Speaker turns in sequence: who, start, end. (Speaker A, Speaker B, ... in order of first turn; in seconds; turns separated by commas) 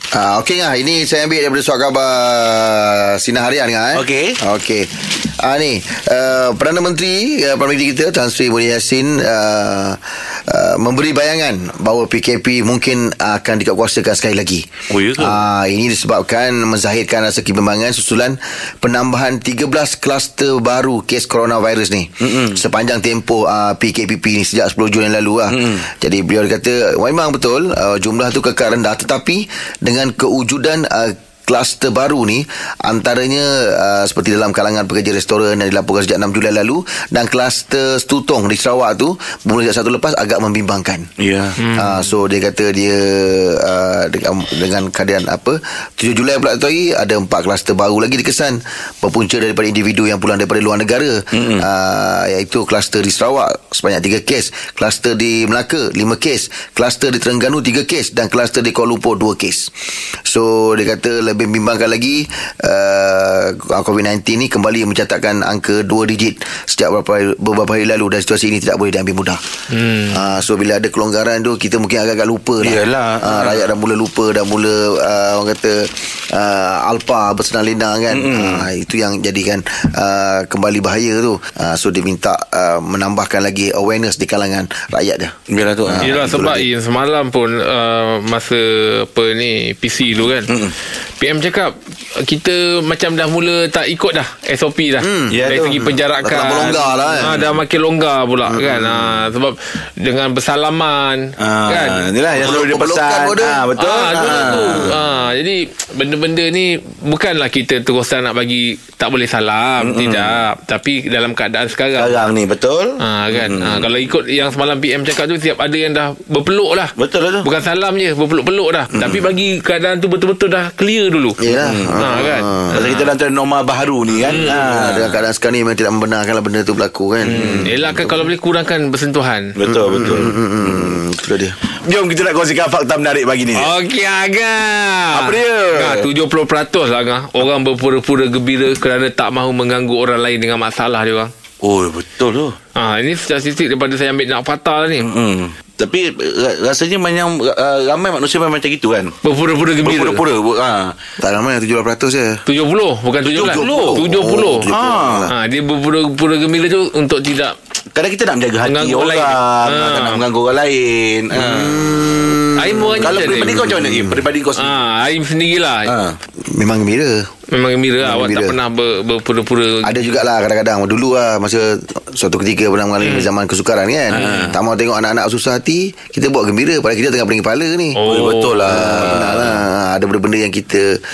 Speaker A: 0.1-41.1, Speaker B: 4.0-4.4, Speaker B: 14.9-15.4, Speaker B: 22.2-22.6, Speaker B: 25.5-25.9, Speaker B: 41.2-41.6, Speaker C: 41.6-42.0, Speaker A: 41.8-59.7, Speaker B: 51.3-51.7, Speaker A: 60.2-69.4, Speaker C: 69.7-70.2, Speaker A: 70.1-86.7, Speaker B: 72.6-73.6, Speaker B: 78.1-78.7, Speaker B: 85.5-86.5, Speaker C: 86.0-90.5, Speaker B: 90.5-90.8, Speaker C: 91.2-102.5, Speaker A: 95.0-95.5, Speaker B: 95.3-95.9, Speaker A: 96.2-97.3, Speaker B: 97.2-97.5, Speaker A: 98.5-99.0, Speaker B: 101.4-104.9, Speaker A: 102.4-103.7, Speaker C: 103.8-112.2, Speaker B: 109.8-110.4, Speaker B: 112.0-113.9, Speaker C: 113.0-116.9, Speaker B: 117.0-117.5, Speaker C: 117.4-121.5, Speaker B: 118.9-119.3, Speaker A: 121.4-122.8, Speaker B: 121.6-125.2, Speaker C: 122.0-123.1, Speaker C: 124.2-124.6, Speaker A: 124.3-128.2, Speaker B: 127.2-127.7, Speaker C: 127.4-129.6, Speaker B: 129.6-130.9, Speaker A: 129.7-131.6, Speaker B: 131.8-133.7, Speaker C: 133.6-141.3, Speaker B: 135.1-136.1, Speaker B: 141.6-142.6, Speaker C: 142.8-145.1, Speaker B: 145.0-149.1, Speaker C: 149.2-150.2, Speaker B: 149.8-150.9, Speaker A: 151.2-152.4, Speaker C: 152.5-154.7, Speaker B: 153.3-154.0, Speaker A: 153.3-155.3, Speaker B: 154.7-155.3, Speaker C: 155.3-157.6, Speaker B: 157.9-161.8, Speaker C: 158.7-160.2, Speaker A: 161.3-164.2, Speaker C: 162.6-163.6, Speaker B: 163.0-164.7, Speaker C: 164.6-165.9, Speaker B: 165.9-166.2, Speaker A: 166.4-167.2, Speaker C: 167.5-169.9, Speaker A: 168.0-168.6, Speaker A: 169.8-178.0, Speaker C: 173.0-173.3, Speaker B: 174.1-174.5, Speaker C: 174.2-174.5, Speaker C: 178.0-178.8, Speaker B: 178.0-179.6, Speaker A: 178.7-180.9